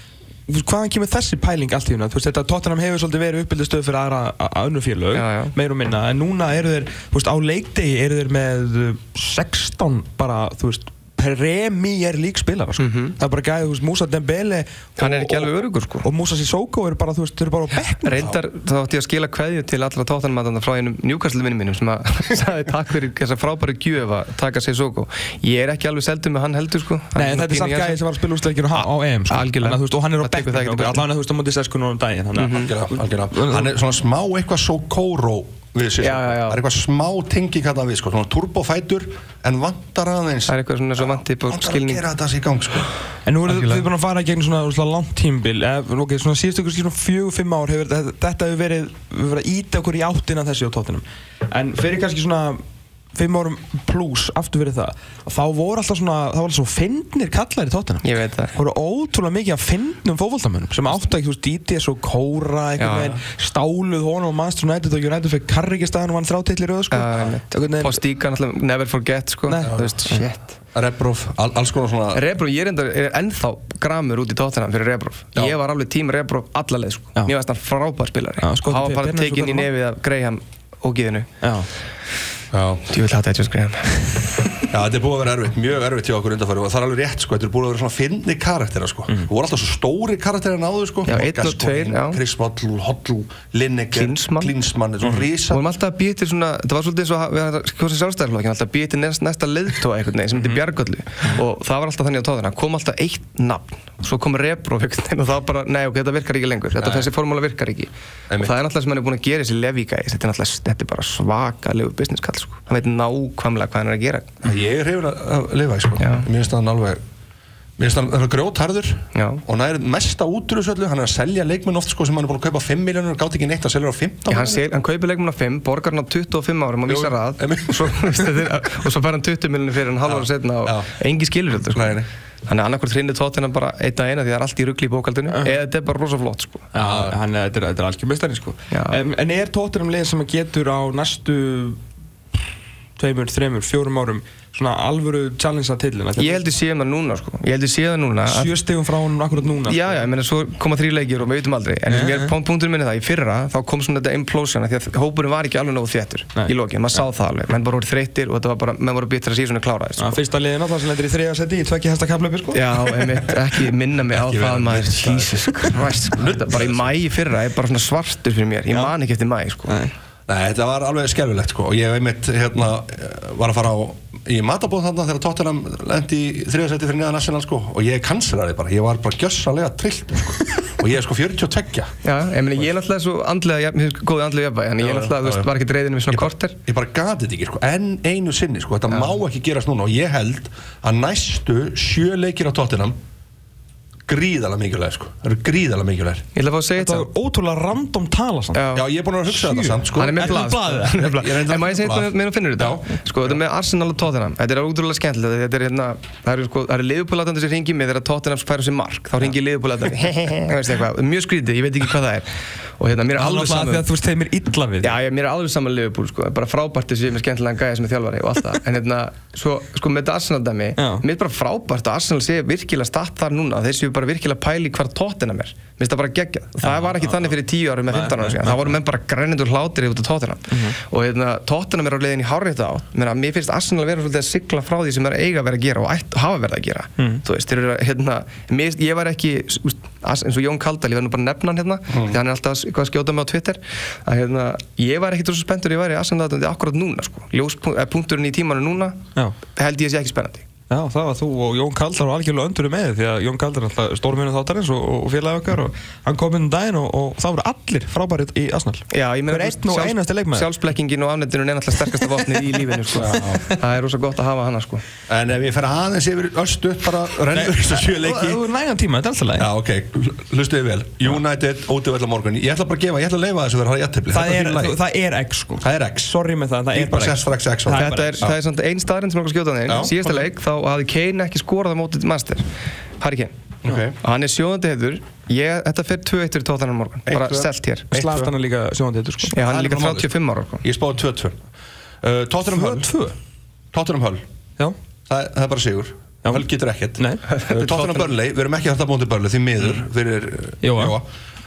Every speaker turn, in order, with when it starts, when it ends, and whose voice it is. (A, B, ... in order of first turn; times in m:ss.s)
0:00.5-0:18.2 A
0:05.1-0:05.5 B
0:12.8-0:13.2 B
0:15.0-0:16.1 B
0:17.8-0:28.0 B
0:27.2-0:33.7 A
0:28.8-0:31.0 B
0:32.4-0:32.7 B
0:32.5-0:42.9 C
0:36.0-0:36.6 B
0:40.5-0:42.0 B
0:43.3-0:52.6 A
0:43.5-0:43.9 B
0:53.2-1:08.0 A
0:58.0-0:58.6 B
1:02.8-1:03.1 B
1:06.9-1:10.5 B
1:09.5-1:10.2 A
1:09.6-1:10.0 C
1:10.7-1:12.2 C
1:12.1-1:21.3 B
1:18.4-1:19.7 A
1:21.4-1:21.7 A
1:22.5-1:22.9 C
1:22.9-1:24.4 B
1:24.7-1:35.6 C
1:31.1-1:32.2 B
1:33.9-1:34.5 B
1:35.5-1:54.5 B
1:46.8-1:47.1 C
1:48.3-1:48.6 C
1:54.4-1:57.0 C
1:56.0-1:56.3 B
1:57.8-2:04.6 C
1:59.1-1:59.4 B
2:04.3-2:16.7 B
2:06.9-2:08.4 C
2:10.1-2:10.9 C
2:11.7-2:12.1 C
2:16.7-2:21.8 A
2:16.8-2:17.2 C
2:18.7-2:19.0 B
2:23.0-2:26.5 A
2:26.2-2:28.5 B
2:28.3-2:30.0 A
2:29.4-2:40.2 B
2:31.9-2:32.3 A
2:40.0-2:43.2 A
2:42.5-2:49.8 B
2:44.1-2:47.0 C
2:49.7-2:49.9 A
2:50.3-3:01.9 C
3:02.0-3:06.6 B
3:04.8-3:05.5 C
3:06.1-3:13.0 C
3:14.1-3:16.3 C
3:16.4-3:17.1 B
3:16.8-3:18.6 A
3:18.5-3:18.8 B
3:18.7-3:22.9 C
3:19.3-3:21.1 A
3:20.0-3:33.8 B
3:33.1-3:35.0 A
3:34.8-4:10.5 B
3:40.8-3:41.0 A
3:46.6-3:47.3 A
3:47.9-3:48.7 A
4:01.9-4:02.2 C
4:10.7-4:20.5 A
4:18.9-4:24.8 B
4:23.0-4:23.4 C
4:25.1-4:28.4 C
4:27.3-4:29.5 A
4:29.4-4:34.8 C
4:34.1-4:38.3 A
4:35.6-4:36.2 C
4:36.7-4:38.4 C
4:37.7-4:42.5 B
4:39.7-4:40.3 C
4:43.0-4:43.3 B
4:43.6-4:44.0 C
4:44.0-4:48.0 B
4:47.1-4:48.3 C
4:47.9-4:49.4 A
4:49.3-4:50.6 B
4:49.4-4:50.1 C
4:50.6-4:51.4 C
4:52.0-4:52.9 C
4:52.5-4:53.1 A
4:53.7-4:54.2 C
4:55.1-5:01.1 C
4:57.0-4:57.2 A
4:57.3-4:58.1 B
5:00.6-5:01.0 A